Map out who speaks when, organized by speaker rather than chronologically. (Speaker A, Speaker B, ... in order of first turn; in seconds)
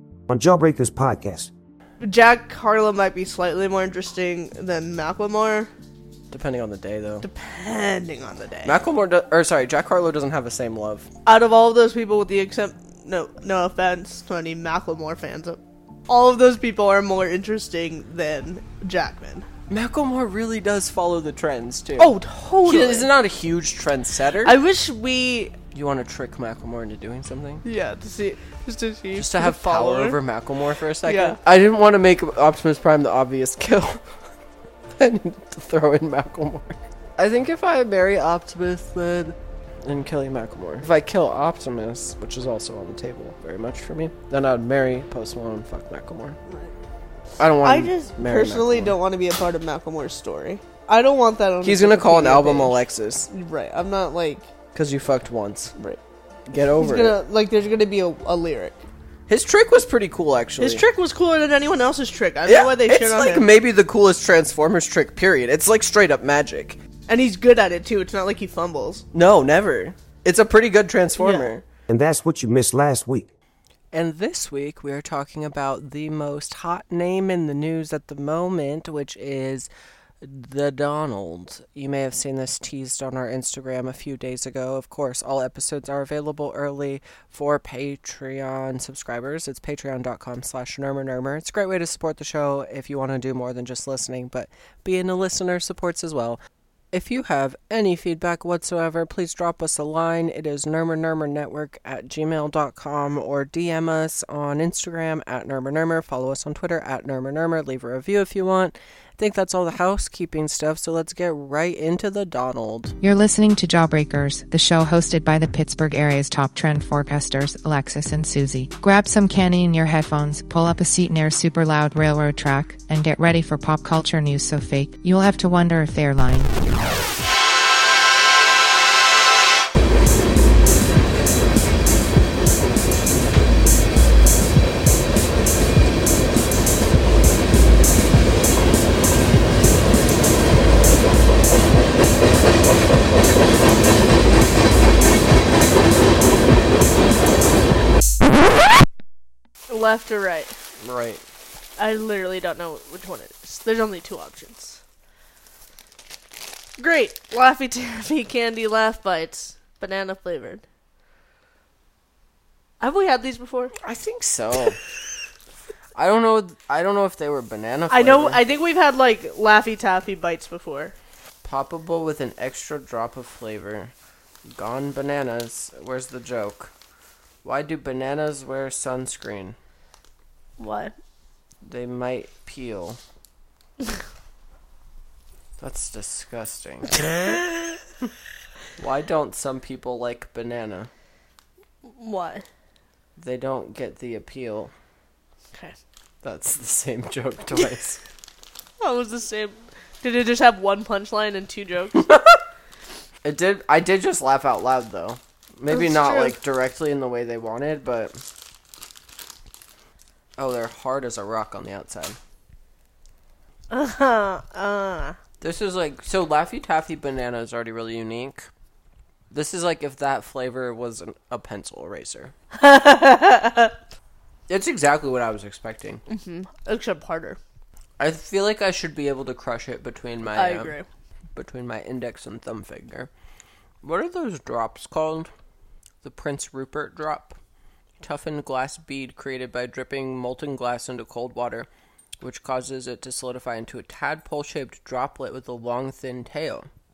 Speaker A: 0.3-1.5, 71.9-73.3
Speaker B: 2.0-5.7, 7.2-8.8, 11.3-19.5, 22.0-23.1, 24.4-25.6, 27.6-30.2, 31.0-31.4, 47.6-54.5, 56.8-58.8, 60.6-63.5, 67.1-69.0, 71.2-71.5, 149.7-150.6, 151.8-154.8, 156.8-160.6, 162.8-163.7, 167.9-170.9, 180.6-180.9, 191.9-192.5, 198.8-202.1, 205.7-206.4, 213.7-215.2, 222.5-223.8, 226.1-227.4, 230.3-230.9
Speaker C: 6.3-7.3, 8.6-11.1, 19.7-24.6, 25.7-27.6, 29.2-34.2, 35.0-46.4, 47.4-49.0, 51.6-53.3, 54.7-55.8, 56.5-57.2, 59.3-60.8, 62.5-66.8, 69.1-71.7, 73.9-79.7, 80.2-96.4, 96.9-113.0, 150.8-151.2, 163.8-164.8, 165.9-168.4, 171.4-173.9, 174.4-176.7, 177.4-179.6, 181.7-183.0, 185.6-187.3, 188.8-190.9, 193.2-194.7, 196.2-198.0, 202.0-202.4, 203.2-208.2, 210.4-212.2, 215.4-218.5, 219.3-222.3, 224.5-226.0, 228.0-230.8, 231.3-233.1, 233.8-235.3, 236.0-237.4, 238.0-241.7, 242.2-246.7
Speaker D: 113.0-126.5